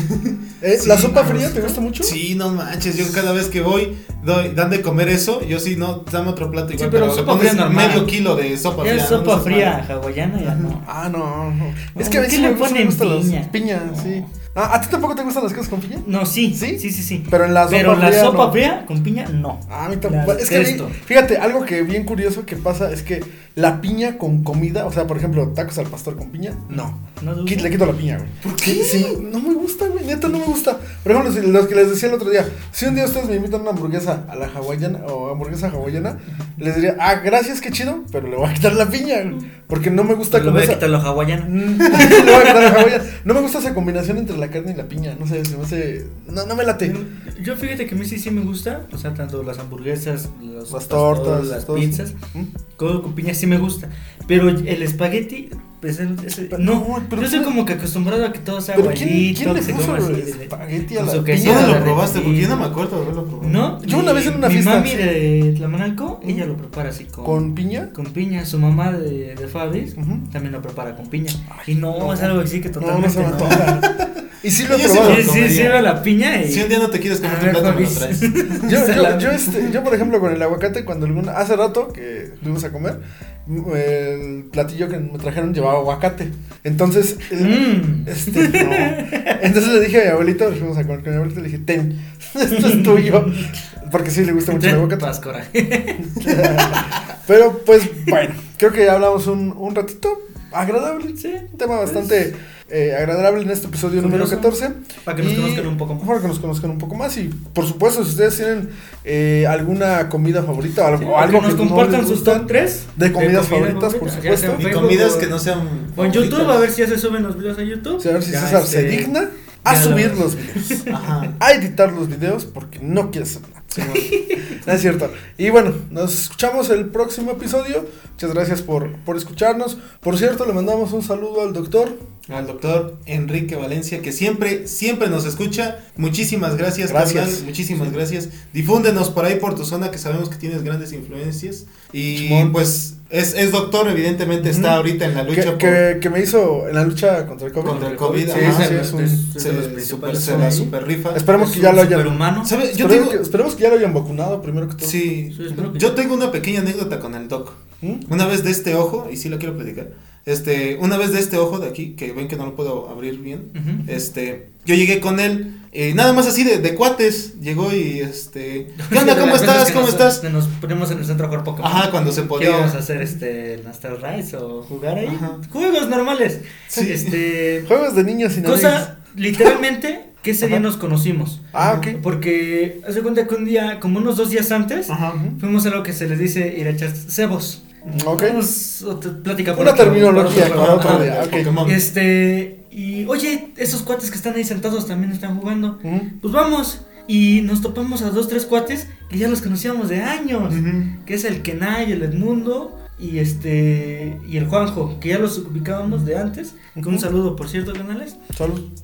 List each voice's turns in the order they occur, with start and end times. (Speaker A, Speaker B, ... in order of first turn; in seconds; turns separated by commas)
Speaker A: 0.1-1.1, Speaker B: 0.6-2.2, Speaker C: 0.8-1.9, Speaker A: 2.0-9.8, Speaker C: 6.7-8.1, Speaker C: 8.8-10.9, Speaker B: 10.8-18.6, Speaker C: 11.9-14.3, Speaker C: 16.0-21.0, Speaker B: 19.7-40.9, Speaker C: 26.7-27.8, Speaker A: 28.4-29.2, Speaker C: 40.3-43.0, Speaker B: 41.4-47.0, Speaker C: 46.8-52.2, Speaker B: 50.7-52.5, Speaker C: 52.8-62.7, Speaker B: 56.5-57.5, Speaker B: 58.7-61.9, Speaker A: 61.4-63.7, Speaker C: 63.4-73.8, Speaker B: 63.8-65.1, Speaker B: 67.2-67.9, Speaker B: 70.0-70.2, Speaker B: 71.5-75.4, Speaker A: 73.5-73.9, Speaker A: 74.7-78.9, Speaker C: 75.0-79.7, Speaker B: 78.6-95.1, Speaker C: 87.3-89.5, Speaker C: 92.5-93.5, Speaker C: 94.5-96.8, Speaker B: 96.2-114.7, Speaker C: 101.2-102.2, Speaker C: 103.9-106.2, Speaker C: 111.0-115.4, Speaker A: 114.6-116.7, Speaker C: 116.0-121.3, Speaker B: 118.0-123.8, Speaker A: 120.9-121.3, Speaker A: 123.7-124.2, Speaker C: 123.8-124.6, Speaker B: 124.5-132.0, Speaker A: 132.3-145.9, Speaker B: 136.9-137.9, Speaker B: 142.1-142.6, Speaker B: 144.4-149.2, Speaker C: 147.6-150.7, Speaker A: 147.6-151.3, Speaker B: 151.1-155.6, Speaker C: 151.3-152.6, Speaker A: 152.4-153.2, Speaker A: 154.8-170.2, Speaker C: 155.3-156.0, Speaker B: 157.8-158.1, Speaker C: 163.5-163.9, Speaker C: 168.8-177.7, Speaker A: 171.6-172.8, Speaker A: 175.0-175.4, Speaker A: 176.7-177.2, Speaker B: 177.6-179.6, Speaker C: 178.4-208.2, Speaker B: 181.5-182.0, Speaker A: 184.9-185.2, Speaker B: 185.1-185.4, Speaker B: 187.9-188.4, Speaker B: 189.6-191.6, Speaker A: 190.2-191.8, Speaker B: 195.8-196.1, Speaker A: 200.5-200.9, Speaker B: 206.8-207.1, Speaker B: 208.3-208.6